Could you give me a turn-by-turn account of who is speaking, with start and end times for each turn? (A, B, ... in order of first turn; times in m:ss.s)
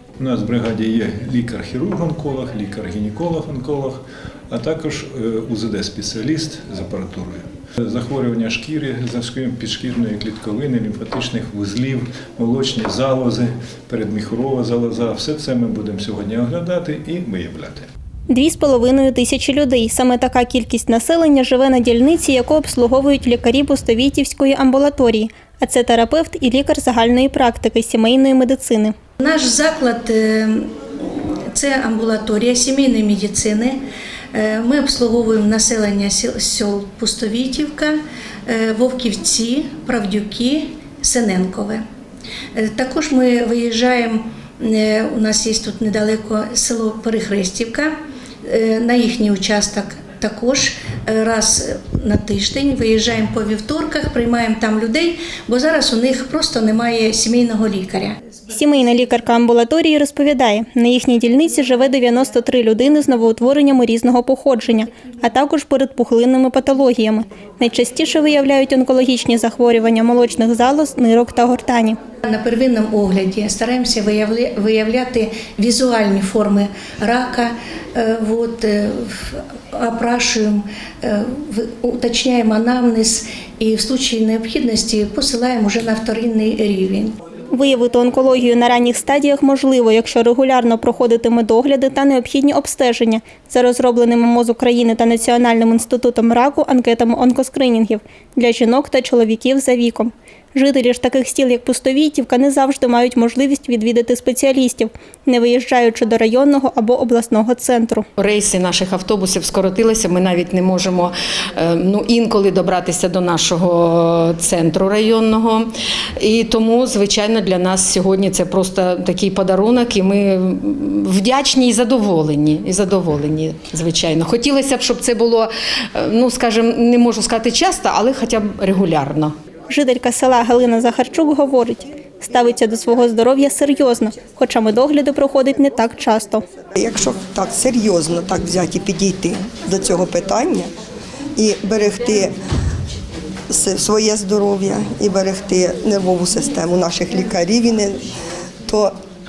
0:00.2-0:17.9 A
0:18.3-0:28.9 B
0:29.2-0:30.7 C
0:31.5-0:33.8 C
0:34.3-0:41.8 C
0:42.5-0:47.9 C
0:48.4-0:58.2 C
0:58.5-1:12.0 B
1:12.2-1:27.2 C
1:27.5-1:48.0 B
1:48.2-2:09.3 D
2:09.7-2:16.4 B
2:16.8-2:20.7 E
2:21.4-2:22.3 E
2:23.5-2:28.0 E
2:28.7-2:28.9 E